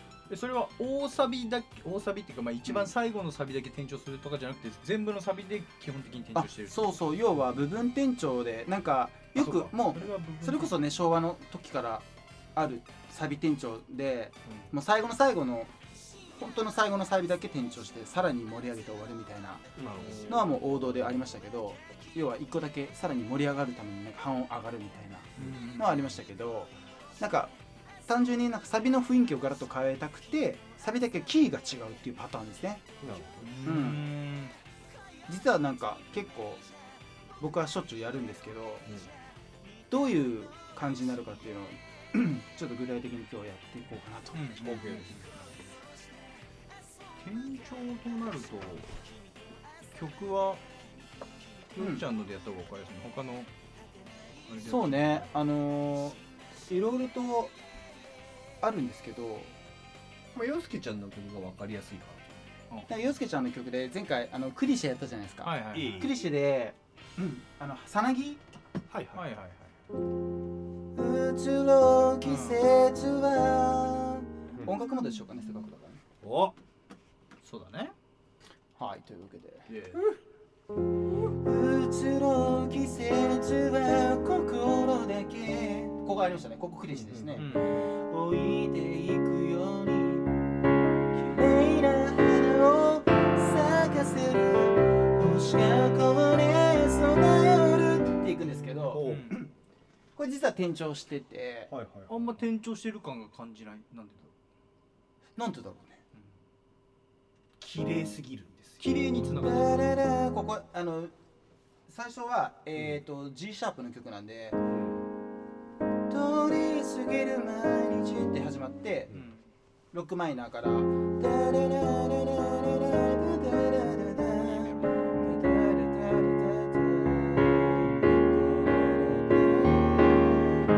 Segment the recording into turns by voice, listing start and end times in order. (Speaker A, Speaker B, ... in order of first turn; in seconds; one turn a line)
Speaker A: 0.3-7.0
Speaker B: 6.3-15.7
Speaker C: 9.4-9.7
Speaker A: 9.7-10.8
Speaker B: 16.3-19.7
Speaker C: 19.8-20.6
Speaker A: 20.0-20.6
Speaker B: 20.3-27.5
Speaker A: 25.4-26.0
Speaker B: 28.1-32.9
Speaker C: 33.0-33.6
Speaker A: 33.4-34.5
Speaker B: 33.6-34.1
Speaker B: 35.3-36.6
Speaker B: 37.4-38.9
Speaker B: 39.9-44.5
Speaker A: 44.3-45.5
Speaker C: 44.6-45.2
Speaker A: 47.2-48.9
Speaker A: 49.9-50.6
Speaker A: 51.8-53.5
Speaker B: 51.8-52.0
Speaker A: 54.5-55.3
Speaker B: 54.7-57.5
Speaker B: 58.6-59.5
Speaker C: 60.3-62.3
Speaker B: 62.9-68.4
Speaker A: 65.4-66.0
Speaker C: 65.7-66.2
Speaker C: 68.9-69.3
Speaker A: 69.2-69.8
Speaker B: 71.0-76.0
Speaker A: 72.2-72.6
Speaker C: 76.2-76.5
Speaker A: 77.4-77.9
Speaker B: 78.8-80.2
Speaker A: 79.7-80.0
Speaker B: 81.3-90.3
Speaker C: 86.9-87.5
Speaker A: 87.4-87.8
Speaker B: 91.1-99.5
Speaker C: 98.9-99.3
Speaker A: 99.0-99.4
Speaker B: 100.2-101.7
Speaker C: 101.7-102.3
Speaker A: 102.1-104.3
Speaker B: 105.4-106.0
Speaker C: 107.6-108.9
Speaker A: 108.8-109.9
Speaker B: 109.4-111.1
Speaker B: 111.9-114.6
Speaker C: 114.7-115.1
Speaker B: 116.1-119.1
Speaker A: 119.1-119.5
Speaker B: 119.9-130.6
Speaker A: 124.2-125.3